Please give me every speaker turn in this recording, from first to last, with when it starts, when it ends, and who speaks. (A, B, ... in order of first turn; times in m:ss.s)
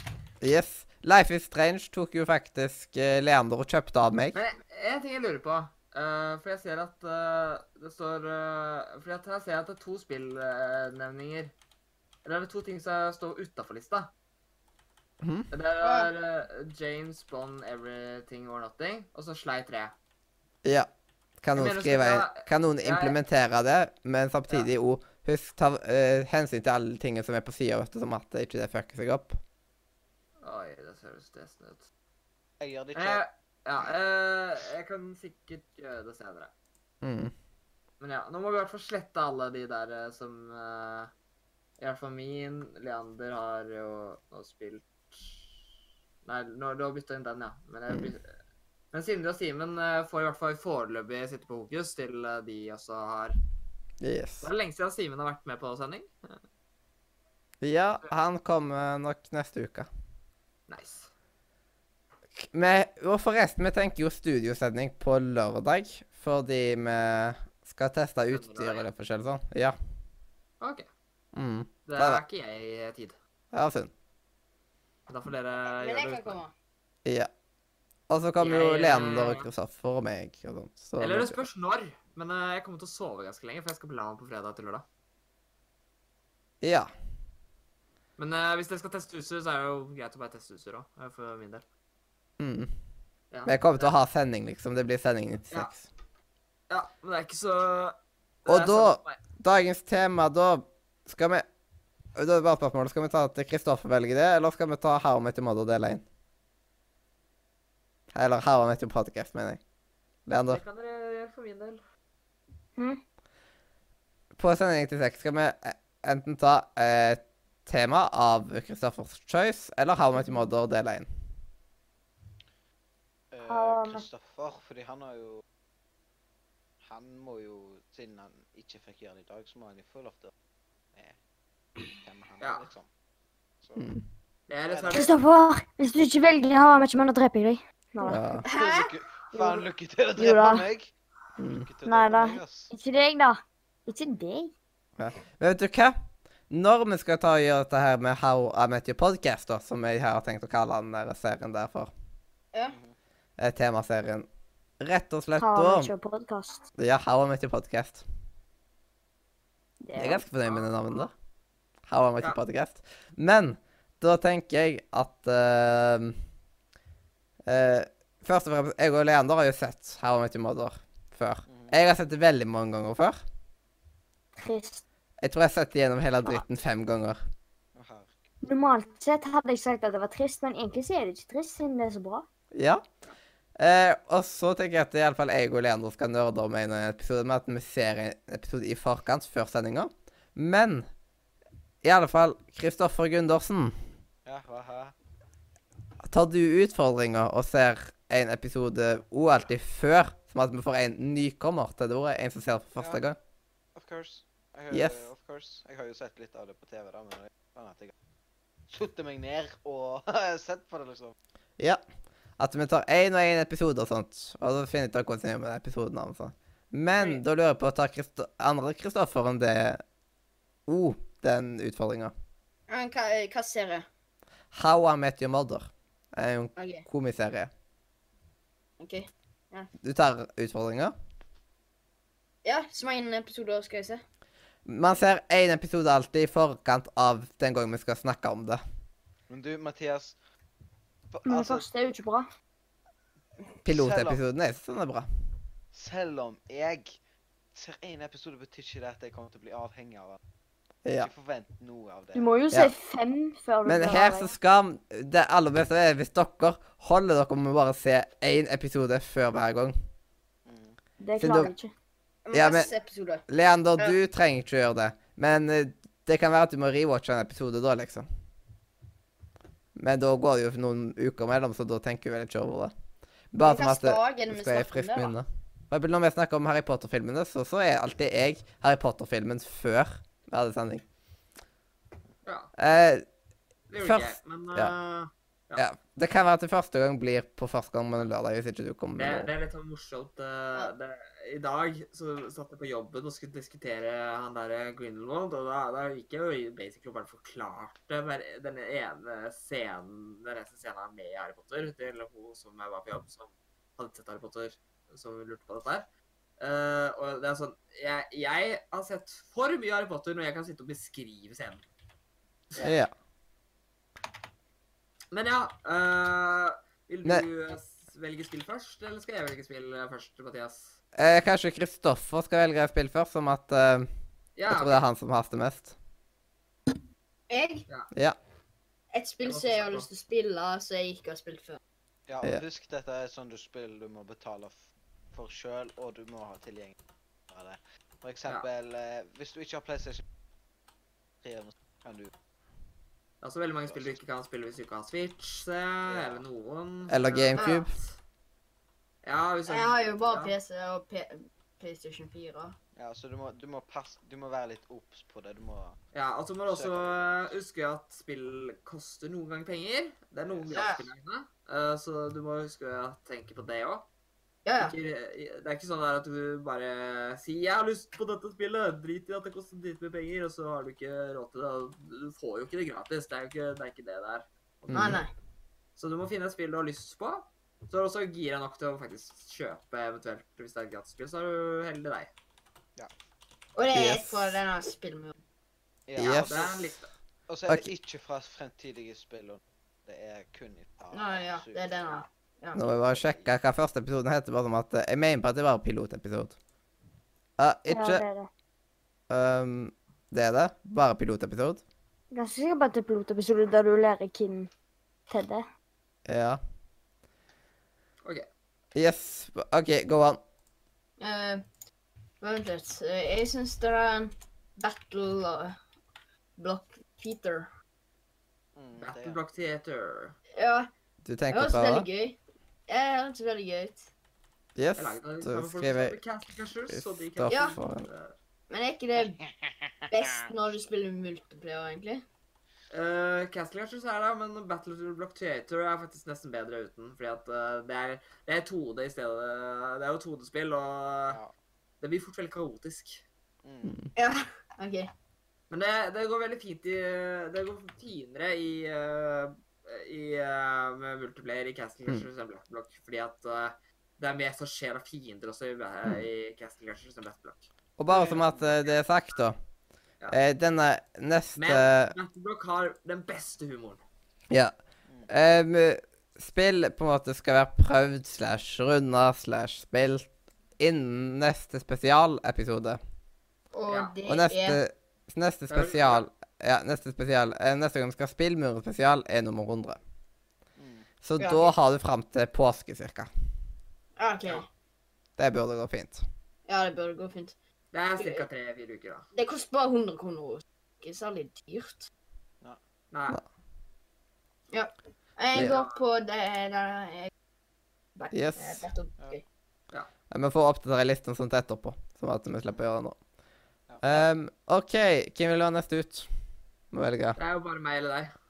0:00.4-0:04.4 A
0:04.3-0:11.5 B
0:12.2-0:14.1 B
0:15.2-0:15.5 A
0:15.5-0:20.0 B
0:15.8-0:16.1 C
0:20.6-0:20.9 A
0:21.4-0:29.4 A
0:21.6-0:23.2 B
0:30.4-0:31.8 B
0:32.6-0:33.2 D
0:33.0-0:36.5 B
0:37.0-0:37.3 A
0:38.0-0:41.1 B
0:41.8-0:45.6 B
0:46.2-0:48.3 B
0:48.9-0:53.4 B
0:54.0-0:54.5 A
0:54.4-0:56.4 B
0:57.6-0:59.9 A
1:00.7-1:01.1 B
1:02.4-1:09.8 A
1:08.3-1:08.9 B
1:10.6-1:10.9 B
1:11.3-1:12.2 A
1:11.9-1:13.2 B
1:13.5-1:13.9 A
1:15.1-1:16.4 B
1:15.7-1:16.5 C
1:17.0-1:17.3 A
1:18.1-1:21.4 A
1:18.4-1:19.5 B
1:21.0-1:24.9 B
1:26.6-1:26.9 A
1:28.2-1:31.6 B
1:32.4-1:32.7 A
1:33.3-1:34.0 B
1:33.4-1:35.8 A
1:36.7-1:39.2 B
1:38.4-1:41.4 A
1:42.2-1:46.0 A
1:48.1-1:49.6 A
1:50.3-1:50.6 A
1:50.5-1:51.8 B
1:54.4-2:01.1 A
2:00.1-2:00.5 E
2:03.3-2:05.4 D
2:03.5-2:04.1 E
2:06.8-2:10.3 D
2:12.0-2:12.9 D
2:12.4-2:12.7 B
2:13.8-2:14.0 A
2:14.5-2:15.2 B
2:14.7-2:15.1 D
2:14.9-2:18.4 E
2:18.1-2:18.4 A
2:18.4-2:18.9 C
2:18.5-2:20.9 D
2:19.3-2:19.6 E
2:20.2-2:20.6 E
2:21.4-2:21.7 A
2:21.6-2:22.7 D
2:21.9-2:24.5 E
2:25.0-2:26.0 A
2:26.5-2:31.9 A
2:32.7-2:33.0 D
2:33.4-2:34.3 A
2:34.8-2:35.9 A
2:35.4-2:36.6 E
2:36.8-2:38.0 A
2:39.8-2:40.2 E
2:40.0-2:41.1 A
2:40.4-2:41.1 B
2:41.9-2:46.2 A
2:47.5-2:53.2 A
2:51.5-2:51.7 D
2:54.4-2:54.8 E
2:55.2-2:57.2 A
2:57.7-2:58.2 D
2:58.4-3:02.2 E
3:02.5-3:02.8 A
3:03.6-3:10.9 A
3:11.8-3:13.7 A
3:14.3-3:15.0 D
3:16.0-3:23.2 A
3:23.7-3:27.9 D
3:24.7-3:25.1 A
3:28.7-3:31.2 D
3:32.4-3:39.8 A
3:37.0-3:37.2 B
3:40.7-3:42.1 A
3:42.7-3:43.9 C
3:44.5-3:47.5 A
3:46.6-3:46.8 C
3:48.8-3:49.7 C
3:49.8-3:50.9 A
3:52.4-3:54.0 C
3:54.6-3:58.6 A
3:59.3-4:00.2 D
4:01.1-4:01.6 D
4:01.3-4:02.3 E
4:03.6-4:05.1 A
4:03.7-4:04.2 D
4:05.7-4:07.0 D
4:07.5-4:10.2 D
4:10.8-4:11.1 A
4:11.0-4:12.3 D
4:12.2-4:14.3 E
4:13.6-4:19.7 A
4:20.4-4:20.8 D
4:21.0-4:21.7 E
4:21.2-4:21.5 A
4:22.3-4:23.2 C
4:22.3-4:22.7 A
4:23.3-4:28.1 A
4:29.8-4:32.7 A
4:33.3-4:40.8 A
4:33.4-4:35.1 C
4:42.2-4:42.5 B
4:42.6-4:43.1 A
4:43.7-4:45.6 B
4:43.8-4:44.7 A
4:45.6-4:49.3 A
4:49.0-5:05.9 B
5:06.4-5:11.6 B
5:12.6-5:12.9 A
5:15.1-5:20.8 B
5:21.0-5:23.9 A
5:24.4-5:24.8 B
5:24.5-5:25.7 A
5:27.3-5:27.6 C
5:27.9-5:28.2 A
5:28.9-5:31.6 C
5:29.2-5:29.9 B
5:32.1-5:36.8 D
5:37.3-5:40.0 D
5:41.2-5:42.1 D
5:43.2-5:48.0 B
5:43.7-5:44.0 D
5:45.9-5:46.2 D
5:46.9-5:47.7 A
5:47.4-5:47.6 C
5:49.0-5:50.4 B
5:49.5-5:52.6 C
5:52.8-5:55.8 D
5:55.9-6:03.9 B
5:56.5-5:57.3 D
6:00.3-6:00.7 D
6:00.5-6:00.8 C
6:04.4-6:04.8 C
6:04.6-6:15.0 B
6:14.7-6:15.0 A
6:14.7-6:15.1 C
6:15.8-6:22.1 B
6:23.6-6:25.2 C
6:23.7-6:24.4 A
6:25.9-6:26.6 D
6:26.0-6:26.4 A
6:26.0-6:26.9 B
6:27.3-6:32.0 D
6:30.9-6:32.6 C
6:32.5-6:36.4 A
6:32.7-6:33.3 D
6:37.4-6:38.0 A
6:37.7-6:38.3 E
6:39.1-6:41.6 A
6:42.1-6:44.5 E
6:45.1-6:45.4 E
6:46.1-6:46.4 A
6:48.7-6:50.2 A
6:51.0-6:51.4 C
6:52.2-6:55.6 C
6:56.4-6:57.5 C
6:58.6-6:59.2 D
6:58.8-7:00.2 B
7:00.4-7:00.7 C
7:01.0-7:01.9 A
7:01.3-7:03.9 C
7:04.6-7:06.0 A
7:04.8-7:08.2 B
7:06.7-7:07.9 A
7:07.3-7:07.6 C
7:08.5-7:09.2 C
7:09.9-7:12.0 C
7:12.7-7:21.2 B
7:21.1-7:21.3 D
7:21.8-7:23.0 B
7:23.4-7:23.8 D
7:23.6-7:23.9 A
7:24.0-7:24.9 C
7:25.5-7:37.5 B
7:37.8-7:39.4 A
7:37.9-7:38.5 D
7:40.1-7:42.0 A
7:41.4-7:43.8 B
7:45.1-7:52.8 A
7:53.6-7:54.6 C
7:53.7-7:53.9 B
7:54.1-7:59.8 A
7:55.5-7:56.1 B
8:00.6-8:00.9 D
8:01.0-8:03.1 A
8:01.2-8:01.5 C
8:04.0-8:04.5 C
8:05.2-8:06.0 A
8:06.5-8:07.4 C
8:07.7-8:09.1 B
8:08.0-8:08.2 C
8:09.1-8:11.9 C
8:12.9-8:13.2 B
8:14.5-8:17.1 C
8:15.3-8:15.8 B
8:18.0-8:19.2 C
8:18.1-8:18.7 A
8:20.1-8:23.0 A
8:23.7-8:24.0 D
8:23.8-8:26.1 A
8:26.7-8:27.2 A
8:27.2-8:28.2 B